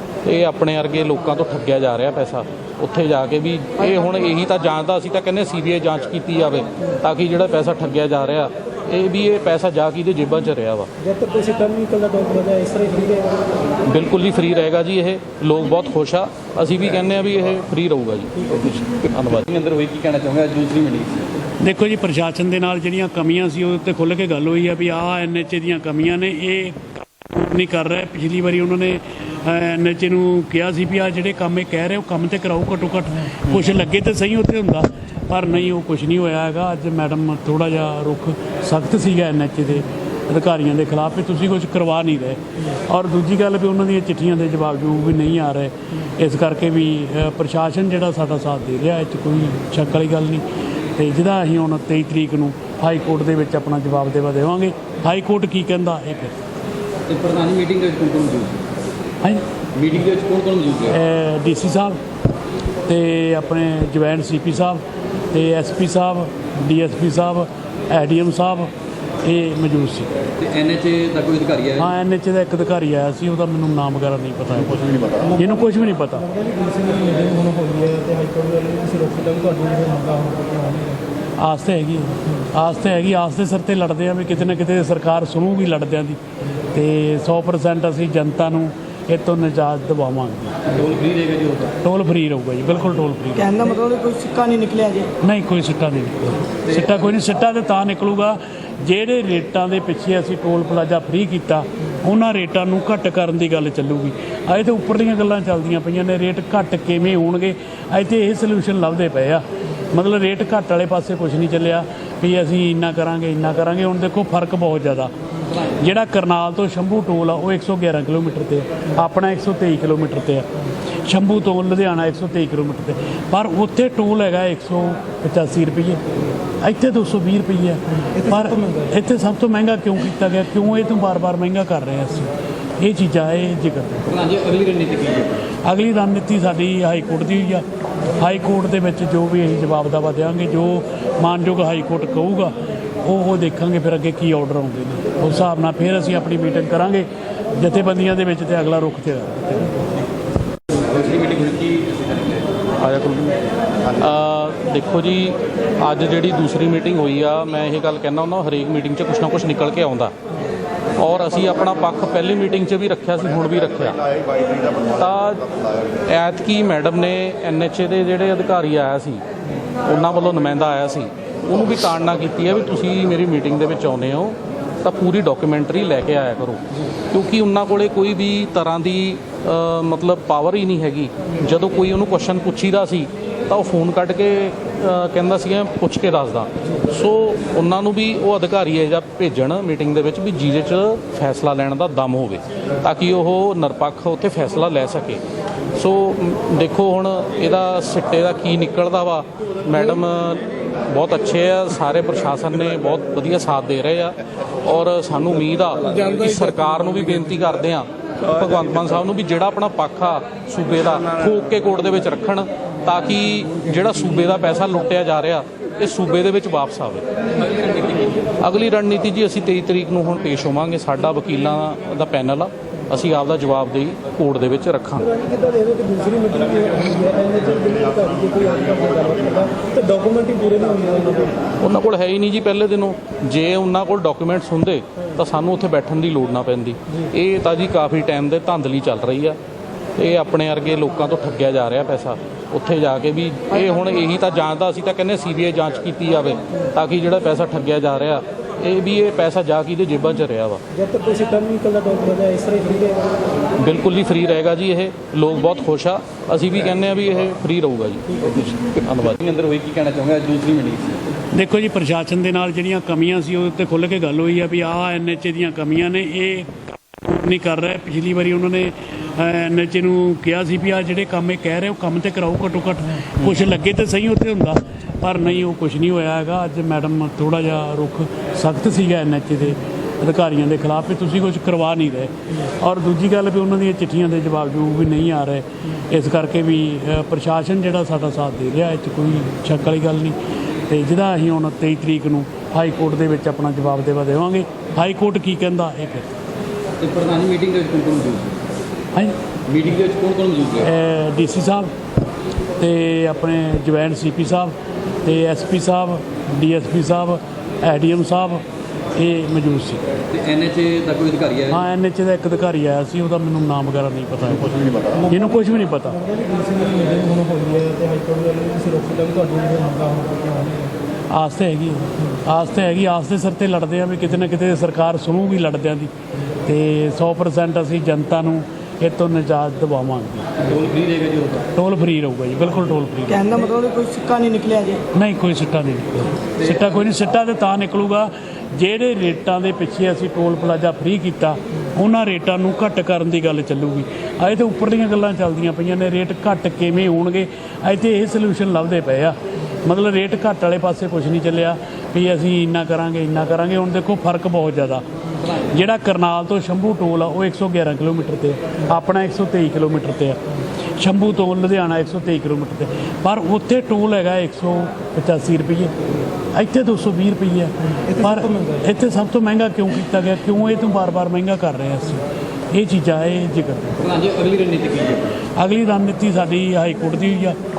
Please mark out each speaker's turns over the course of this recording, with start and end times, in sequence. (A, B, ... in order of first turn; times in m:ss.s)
0:00.2-0:10.9 A
0:11.0-0:13.5 B
0:13.9-0:19.5 A
0:19.5-0:21.3 C
0:21.6-0:50.4 D
0:51.0-0:56.4 D
0:57.1-0:58.6 C
0:59.8-1:01.0 C
1:00.9-1:02.0 D
1:02.9-1:10.1 D
1:10.4-1:11.9 C
1:11.8-1:16.4 D
1:16.3-1:21.0 B
1:21.4-1:26.2 D
1:26.7-1:30.6 D
1:30.7-1:31.7 C
1:31.8-1:33.5 D
1:33.4-1:35.1 E
1:35.2-1:49.4 D
1:49.9-1:55.1 D
1:55.8-2:00.5 D
2:01.1-2:06.0 D
2:06.6-2:14.1 D
2:14.1-2:15.4 C
2:15.6-2:17.6 D
2:18.2-2:29.8 D
2:30.9-2:32.2 C
2:32.8-2:33.4 A
2:33.9-2:40.2 A
2:41.0-2:44.0 A
2:44.9-2:45.5 A
2:46.1-2:49.2 A
2:49.8-3:15.2 A
3:15.8-3:37.0 A
3:38.4-3:45.2 A
3:45.1-3:51.4 B
3:51.6-3:59.4 A
4:00.0-4:10.6 A
4:10.7-4:13.2 B
4:13.6-4:19.2 A
4:19.2-4:21.0 C
4:21.3-4:50.2 D
4:50.7-4:56.1 D
4:56.8-4:58.4 C
4:59.5-5:00.7 C
5:00.6-5:01.7 D
5:02.6-5:09.8 D
5:10.1-5:11.6 C
5:11.5-5:16.1 D
5:16.1-5:20.8 B
5:21.1-5:25.9 D
5:26.4-5:30.3 D
5:30.5-5:31.5 C
5:31.6-5:33.3 D
5:33.1-5:34.8 E
5:34.9-6:00.2 D
6:00.8-6:05.8 D
6:06.3-6:13.8 D
6:13.8-6:15.1 C
6:15.4-6:17.4 D